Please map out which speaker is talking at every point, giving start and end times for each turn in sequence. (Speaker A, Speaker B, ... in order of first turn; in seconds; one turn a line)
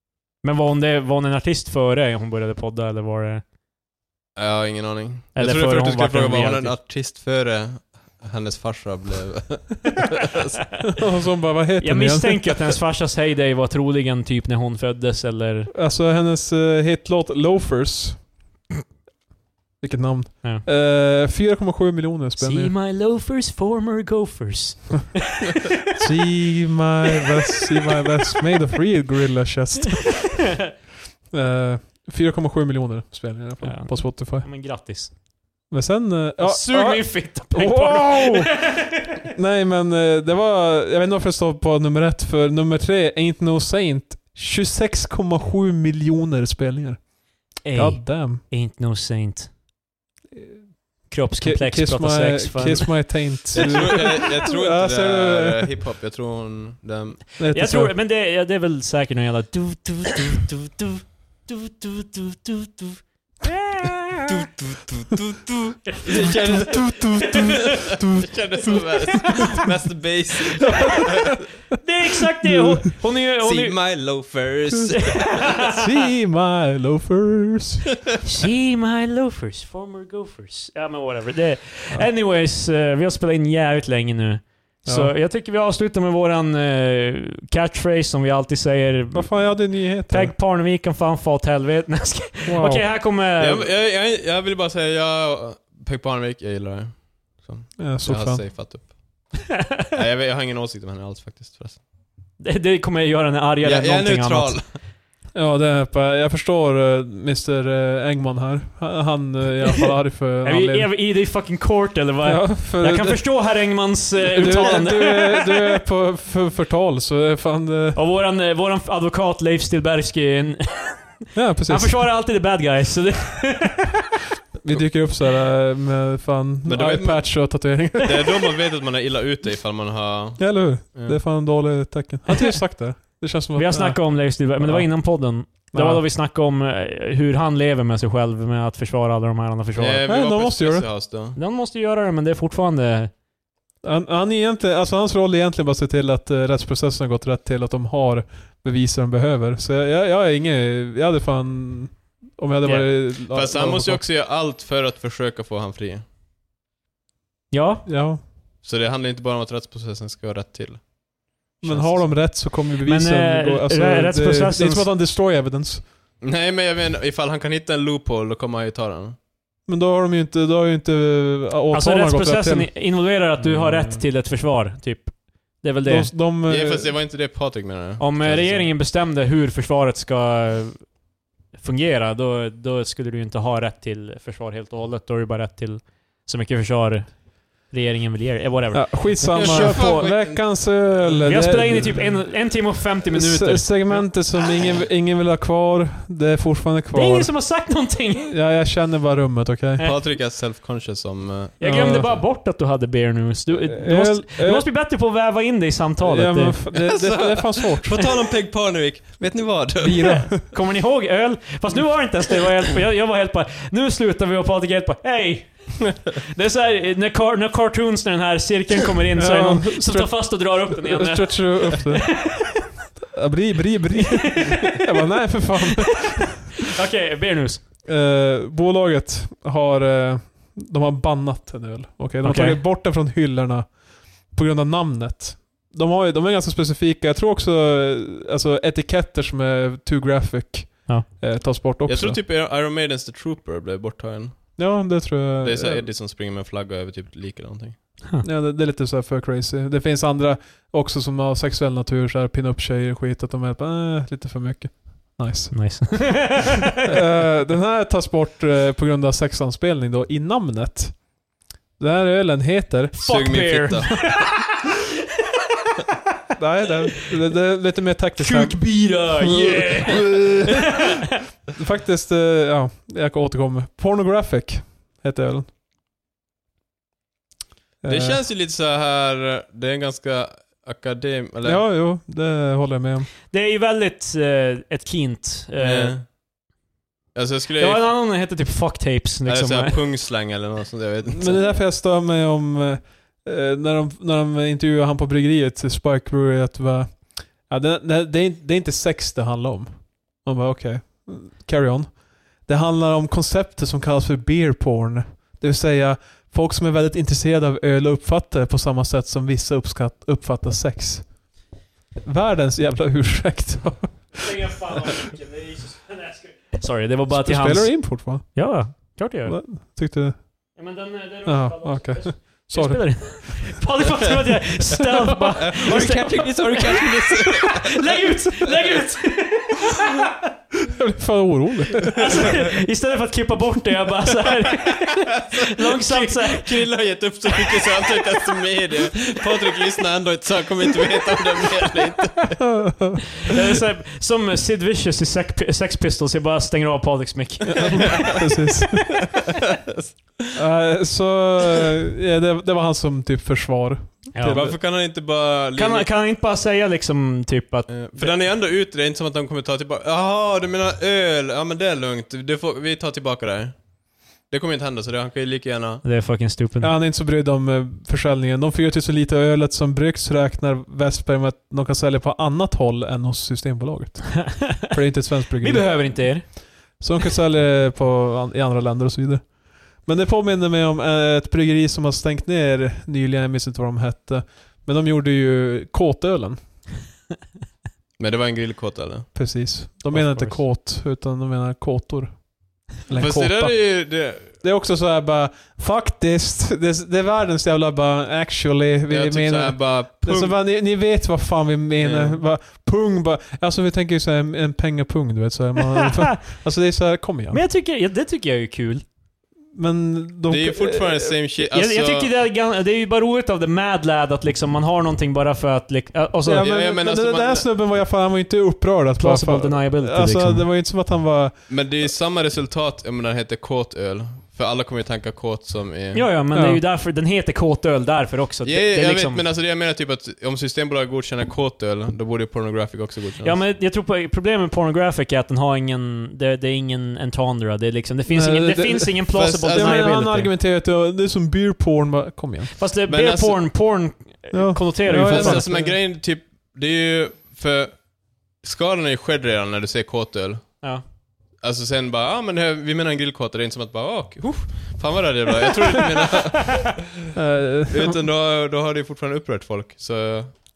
Speaker A: 0.4-3.4
Speaker B: 4.4-10.6
Speaker A: 5.3-6.8
Speaker C: 10.9-12.8
Speaker A: 11.8-15.7
Speaker C: 15.7-18.3
Speaker C: 19.8-22.7
Speaker A: 22.4-25.7
Speaker C: 25.9-30.7
Speaker A: 30.0-30.7
Speaker C: 31.3-34.5
Speaker A: 33.6-35.1
Speaker C: 35.7-38.5
Speaker A: 36.4-39.2
Speaker C: 39.3-47.0
Speaker A: 47.6-49.5
Speaker C: 47.7-48.4
Speaker A: 51.1-53.9
Speaker C: 51.4-55.7
Speaker B: 53.5-57.2
Speaker C: 57.4-57.9
Speaker A: 57.5-64.3
Speaker B: 64.3-71.4
Speaker C: 66.2-69.6
Speaker A: 67.2-67.9
Speaker C: 70.6-71.4
Speaker A: 70.6-73.8
Speaker C: 72.4-72.8
Speaker B: 73.4-75.5
Speaker A: 74.9-75.8
Speaker C: 75.6-77.9
Speaker A: 78.2-93.7
Speaker C: 84.9-85.1
Speaker C: 89.1-90.3
Speaker C: 92.5-92.9
Speaker B: 93.4-99.3
Speaker C: 97.8-98.4
Speaker B: 99.9-101.8
Speaker A: 102.4-104.6
Speaker B: 103.6-104.7
Speaker C: 105.3-110.9
Speaker A: 110.4-115.8
Speaker C: 112.2-113.2
Speaker C: 114.2-118.0
Speaker A: 118.0-124.2
Speaker C: 121.3-122.0
Speaker C: 124.6-128.5
Speaker B: 126.7-127.4
Speaker B: 128.0-131.2
Speaker C: 130.4-134.0
Speaker A: 133.6-140.0
Speaker C: 134.6-134.9
Speaker C: 135.7-136.0
Speaker B: 139.8-141.4
Speaker C: 140.1-140.9
Speaker A: 141.4-143.1
Speaker C: 143.8-154.0
Speaker A: 152.6-152.9
Speaker B: 153.3-156.0
Speaker A: 157.5-157.9
Speaker C: 157.9-158.2
Speaker B: 158.6-160.8
Speaker B: 161.6-162.1
Speaker C: 161.6-165.8
Speaker A: 161.7-164.9
Speaker B: 166.2-169.2
Speaker C: 169.7-172.7
Speaker A: 171.7-176.1
Speaker B: 173.4-174.0
Speaker C: 175.8-176.9
Speaker B: 176.5-178.7
Speaker A: 178.0-180.9
Speaker A: 181.6-190.1
Speaker C: 188.7-192.3
Speaker B: 189.3-190.4
Speaker A: 191.2-194.1
Speaker C: 193.1-197.3
Speaker A: 196.9-198.3
Speaker C: 198.2-199.9
Speaker B: 199.8-202.1
Speaker A: 201.6-206.6
Speaker C: 201.6-202.2
Speaker C: 203.5-204.7
Speaker C: 206.0-208.1
Speaker B: 206.7-210.3
Speaker C: 209.8-210.4
Speaker A: 210.0-222.7
Speaker C: 219.2-226.5
Speaker A: 224.0-225.0
Speaker A: 225.6-227.6
Speaker C: 227.8-242.2
Speaker A: 232.2-232.6
Speaker B: 241.9-244.6
Speaker C: 244.6-245.8
Speaker B: 245.4-247.8
Speaker C: 248.2-261.1
Speaker A: 255.5-256.8
Speaker C: 261.8-263.2
Speaker A: 263.0-264.6
Speaker B: 263.0-264.1
Speaker C: 266.4-270.7
Speaker A: 268.2-271.1
Speaker C: 271.5-275.5
Speaker C: 277.8-278.2
Speaker B: 277.9-281.6
Speaker C: 281.4-283.1
Speaker A: 283.3-286.0
Speaker B: 285.6-286.1
Speaker B: 287.1-287.9
Speaker A: 287.6-289.8
Speaker B: 289.3-291.4
Speaker C: 291.1-311.2
Speaker C: 312.1-314.8
Speaker A: 314.1-319.4
Speaker C: 317.1-320.2
Speaker A: 320.6-330.3
Speaker C: 321.3-323.5
Speaker B: 325.0-327.9
Speaker C: 330.6-332.4
Speaker A: 331.9-336.7
Speaker B: 334.6-342.4
Speaker A: 337.4-337.9
Speaker C: 342.4-343.0
Speaker A: 343.2-348.1
Speaker C: 347.5-349.1
Speaker B: 349.4-350.4
Speaker C: 350.3-354.6
Speaker A: 354.1-354.6
Speaker B: 354.2-355.9
Speaker A: 355.6-358.1
Speaker B: 357.7-363.6
Speaker B: 364.3-365.8
Speaker A: 365.8-366.7
Speaker C: 366.6-386.4
Speaker A: 374.2-374.7
Speaker A: 375.4-376.4
Speaker B: 388.0-389.1
Speaker C: 389.1-407.4
Speaker A: 389.9-390.4
Speaker B: 392.9-394.3
Speaker B: 398.9-400.4
Speaker B: 401.8-402.2
Speaker A: 405.8-406.2
Speaker A: 407.3-408.8
Speaker C: 409.6-411.1
Speaker B: 410.3-412.1
Speaker A: 411.4-416.5
Speaker C: 416.3-421.4
Speaker B: 416.4-417.5
Speaker A: 419.0-420.5
Speaker B: 421.5-426.1
Speaker A: 425.9-429.2
Speaker C: 426.3-426.6
Speaker B: 428.4-433.4
Speaker A: 433.2-440.3
Speaker C: 438.1-442.6
Speaker B: 439.1-439.9
Speaker A: 442.6-445.5
Speaker B: 442.9-443.4
Speaker C: 444.3-445.8
Speaker B: 444.9-447.8
Speaker B: 448.4-450.6
Speaker B: 451.4-456.8
Speaker C: 457.1-458.0
Speaker B: 457.7-460.4